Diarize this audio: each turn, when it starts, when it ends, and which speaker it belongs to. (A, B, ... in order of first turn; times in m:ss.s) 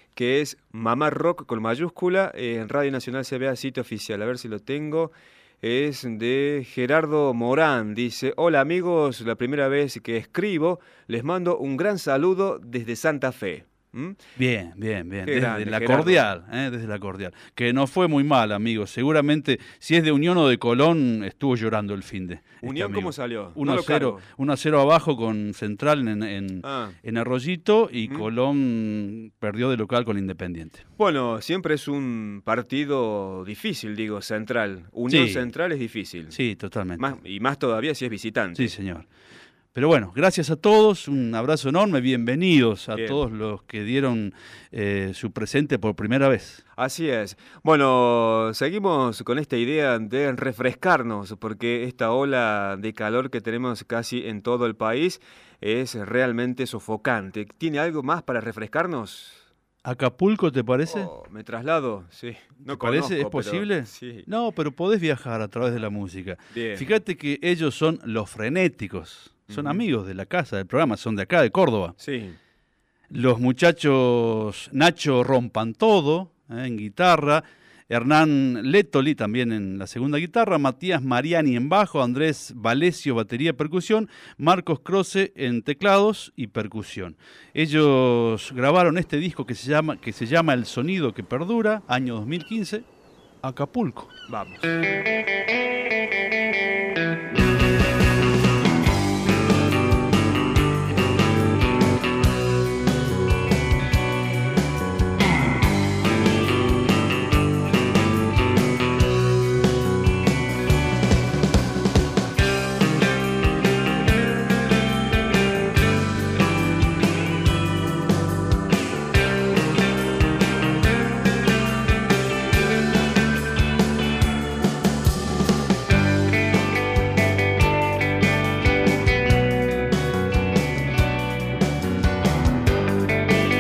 0:00.1-0:14.2 A
0:14.4-0:30.8 B
0:15.3-0:16.2 A
0:22.6-0:24.2 A
0:26.6-0:27.0 A
0:28.0-0:28.3 A
0:31.0-0:36.4 A
0:35.1-0:35.5 B
0:36.3-0:37.1 B
0:37.0-0:38.8 A
0:38.6-0:39.1 B
0:39.7-0:46.6 B
0:46.8-0:59.5 A
0:59.8-1:01.1 B
1:00.9-1:04.3 A
1:02.6-1:11.9 B
1:06.5-1:07.0 A
1:09.5-1:09.8 A
1:12.0-1:12.4 A
1:13.1-1:32.8 B
1:33.4-1:34.1 B
1:34.3-1:34.6 A